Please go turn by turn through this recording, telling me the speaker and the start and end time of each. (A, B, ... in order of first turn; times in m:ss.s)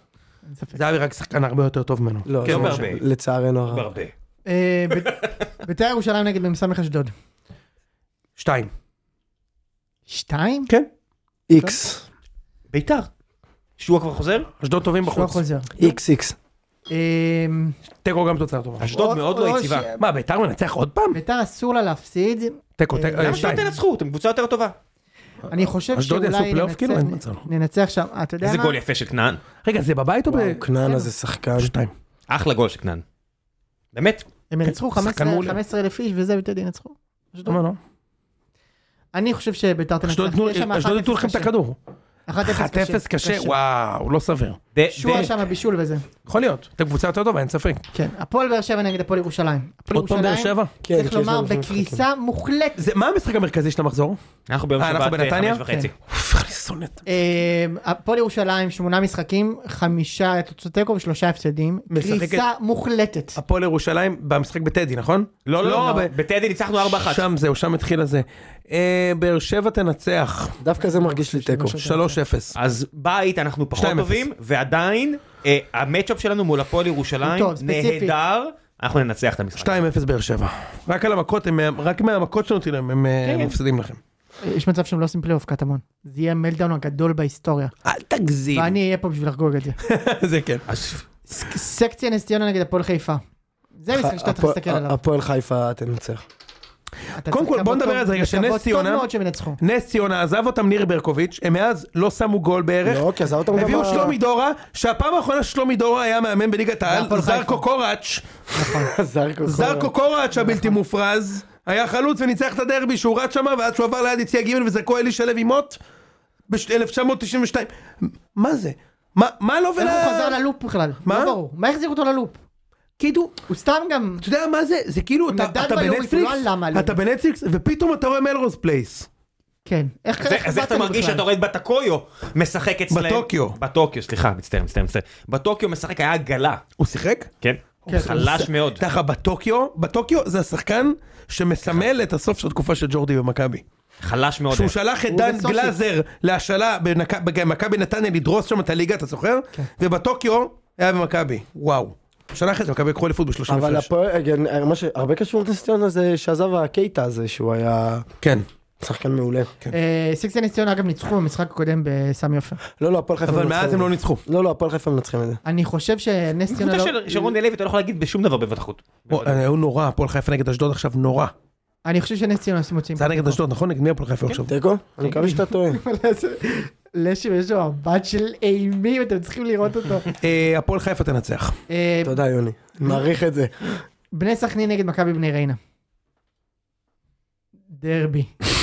0:00.5-0:00.8 A
0:00.8-0:02.9 B
0:02.3-0:03.9 C
0:02.4-0:03.0 D
0:03.7-0:04.1 D
0:04.5-0:07.1 A
0:08.4-0:08.7 B
0:10.1-0:10.7 A
0:11.5-0:12.0 C
0:12.7-0:13.1 D
0:13.8-0:14.5 D
0:14.6-0:15.4 B
0:15.1-0:15.9 A
0:15.8-0:16.4 C
0:16.9-0:17.8 A
0:18.0-0:19.0 B
0:18.8-0:19.9 D
0:18.9-0:20.0 A
0:20.0-0:21.2 B
0:21.1-0:23.7 A
0:22.8-0:23.7 B
0:23.2-0:24.8 D
0:25.5-0:28.8 A
0:25.9-0:27.4 B
0:28.4-0:29.4 D
0:29.6-0:30.6 B
0:30.3-0:31.7 C
0:30.8-0:31.1 A
0:31.6-0:31.9 B
0:32.3-0:33.0 D
0:33.9-0:34.3 D
0:34.5-0:37.6 A
0:34.7-0:35.6 B
0:37.5-0:37.8 B
0:39.1-0:41.5 A
0:40.0-0:41.8 B
0:42.3-0:43.6 A
0:42.4-0:44.6 B
0:44.8-0:45.4 D
0:44.9-0:46.0 A
0:46.3-0:47.8 B
0:47.9-0:52.9 A
0:49.9-0:50.7 B
0:50.8-0:52.0 C
0:52.8-0:54.2 B
0:54.5-0:55.9 D
0:54.8-0:57.0 B
0:57.1-1:03.4 A
1:01.9-1:02.4 B
1:03.4-1:06.1 B
1:05.5-1:07.2 D
1:06.8-1:10.6 B
1:10.6-1:11.8 C
1:10.8-1:12.2 A
1:11.8-1:12.5 B
1:12.6-1:19.8 D
1:13.8-1:14.2 B
1:17.2-1:18.1 A
1:19.6-1:24.0 B
1:23.3-1:23.5 D
1:24.4-1:27.7 A
1:27.9-1:28.7 B
1:28.5-1:29.8 A
1:29.8-1:30.6 B
1:30.7-1:31.0 D
1:31.3-1:33.2 A
1:33.8-1:35.0 A
1:33.9-1:36.2 C
1:37.1-1:39.6 A
1:37.3-1:39.1 B
1:39.6-1:48.2 B
1:42.8-1:44.2 C
1:43.5-1:44.2 A
1:46.9-1:47.6 A
1:48.5-1:48.9 A
1:48.8-1:49.9 C
1:49.4-1:55.8 B
1:50.3-1:50.8 A
1:56.5-2:00.4 B
1:59.8-2:02.4 A
2:01.1-2:01.4 B
2:03.0-2:03.3 B
2:03.5-2:04.2 A
2:04.2-2:09.1 B
2:05.3-2:07.0 A
2:09.6-2:11.3 A
2:10.2-2:16.6 D
2:12.9-2:13.6 B
2:16.8-2:17.3 B
2:17.4-2:18.8 D
2:17.9-2:18.2 A
2:17.9-2:23.6 B
2:21.6-2:21.9 D
2:24.0-2:24.8 D
2:24.5-2:33.9 B
2:25.1-2:25.8 A
2:33.5-2:38.1 C
2:38.8-2:39.5 C
2:39.7-2:42.6 A
2:42.8-2:45.4 C
2:43.3-2:44.2 B
2:45.4-2:47.3 A
2:46.5-2:49.4 D
2:49.1-2:51.3 B
2:51.8-2:53.4 A
2:53.0-2:54.5 B
2:54.5-2:55.8 C
2:55.0-3:00.1 A
3:00.2-3:01.6 B
3:01.7-3:02.2 A
3:02.0-3:03.8 C
3:04.1-3:05.6 A
3:07.7-3:08.3 A